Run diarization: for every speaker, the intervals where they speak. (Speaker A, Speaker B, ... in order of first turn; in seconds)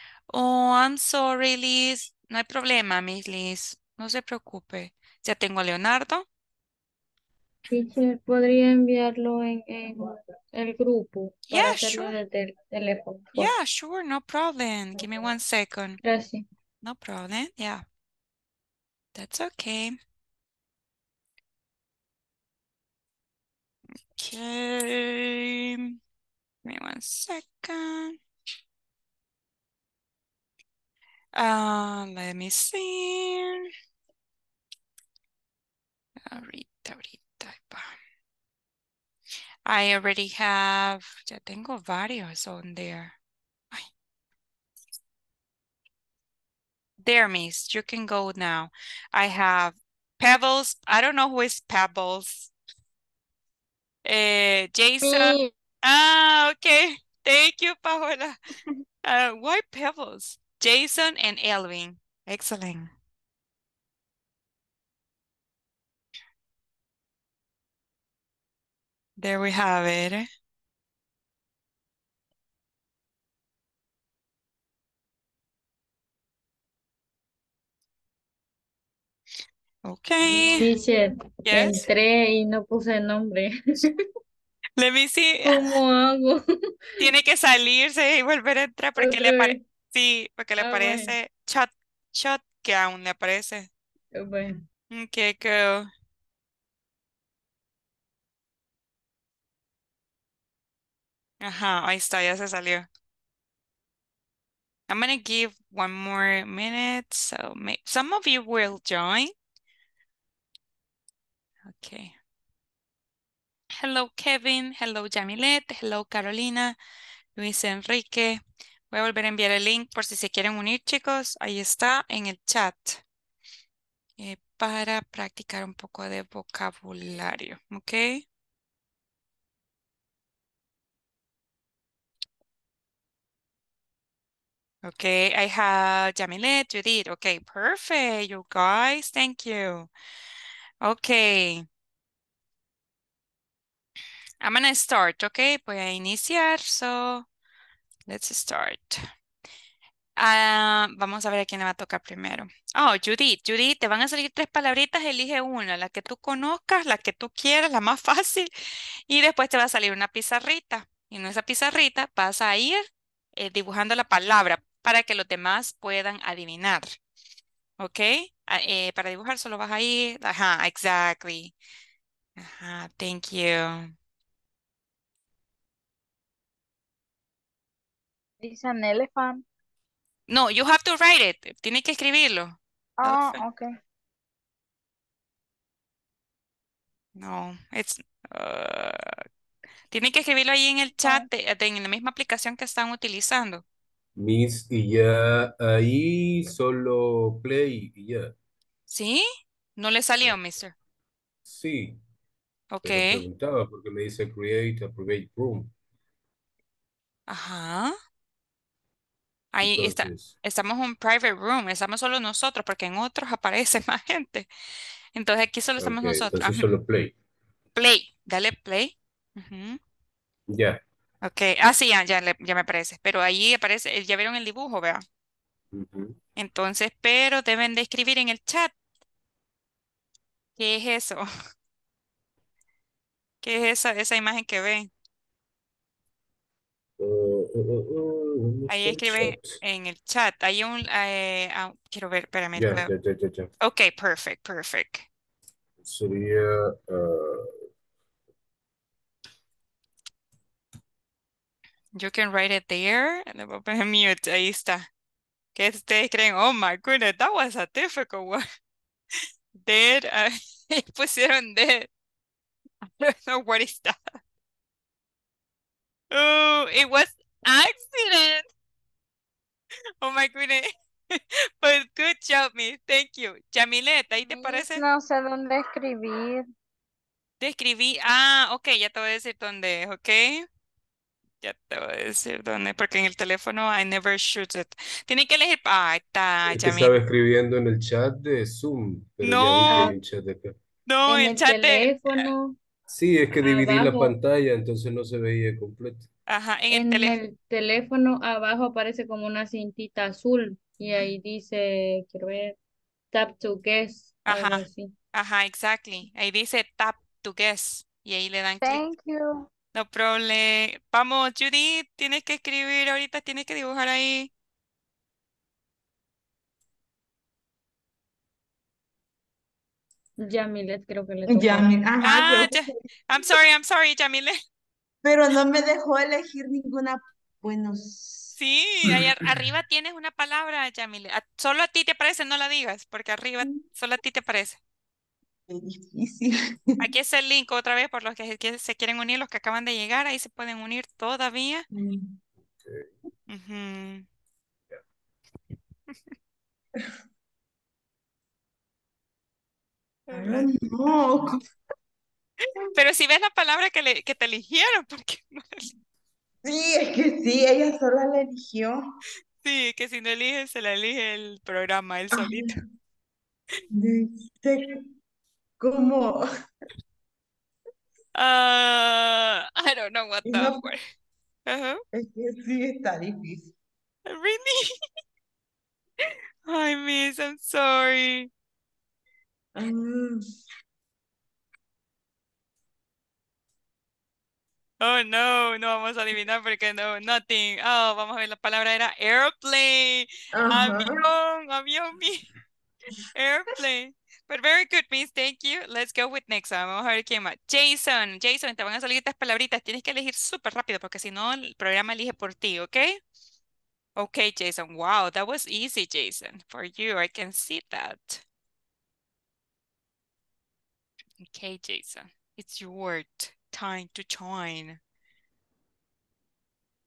Speaker A: 0.3-6.2, 11.5-12.1, 13.3-16.0, 16.8-17.8, 19.1-19.9, 24.1-25.9, 26.6-28.2, 31.3-33.7, 36.2-38.0, 39.6-43.1, 47.0-52.5, 54.0-58.4, 59.0-62.9, 69.2-70.2, 79.8-80.7, 81.5-81.8, 84.8-85.6, 87.0-93.7, 94.9-95.9, 101.4-102.8, 104.9-109.3, 111.7-112.1, 113.8-116.8, 117.3-118.4, 118.9-123.0, 124.2-128.2, 134.8-139.9, 140.8-141.7, 144.4-147.3, 148.1-149.0, 150.2-158.5, 159.1-162.8, 163.4-166.9, 167.8-171.5, 172.4-173.9, 180.3-183.4, 187.2-189.2, 189.9-193.6, 198.9-199.2, 199.8-200.7, 202.7-203.2, 207.3-207.9, 209.5-214.5, 215.1-216.7, 217.8-219.8, 221.2-225.0, 226.4-228.7, 230.6-231.2, 233.4-234.9, 238.7-242.9, 243.6-245.1, 251.9-254.9, 255.5-258.4, 259.6-261.9, 262.8-264.1, 266.1-268.5, 270.0-274.8, 277.4-280.4, 281.4-286.9, 289.2-289.9, 290.9-292.3, 296.3-297.2, 304.2-308.9, 309.7-314.3, 322.0-324.4, 328.4-334.6, 336.8-341.6, 343.3-344.1, 350.1-350.5, 352.7-355.6, 359.4-362.6, 368.1-370.8, 371.5-371.8, 374.1-374.7, 376.4-378.3, 384.8-392.2, 393.1-403.0, 404.0-408.2, 411.2-414.8
Speaker B: 7.7-10.0, 10.5-13.5, 16.0-16.4, 80.3-84.0, 85.4-86.4, 89.0-89.6, 90.6-91.2, 94.1-94.6, 289.7-289.9, 291.1-292.6, 293.4-294.1, 296.7-302.6, 303.1-304.9, 320.2-321.7
Speaker C: 178.4-179.4, 183.0-183.7, 274.2-276.4, 308.6-309.4
Speaker D: 194.2-198.3, 201.5-202.0, 202.8-205.7, 209.6-210.3, 215.8-217.1, 220.5-220.8, 225.7-226.2, 237.0-239.6, 242.5-243.5, 245.8-247.7, 286.5-290.6, 292.9-296.1
Speaker E: 321.3-322.8, 325.0-328.3, 335.5-336.8, 341.7-342.1, 350.1-351.4, 356.4-358.8, 362.1-362.5, 363.7-364.8, 365.6-366.2, 370.2-370.6, 371.9-373.5, 379.6-380.2, 390.3-391.1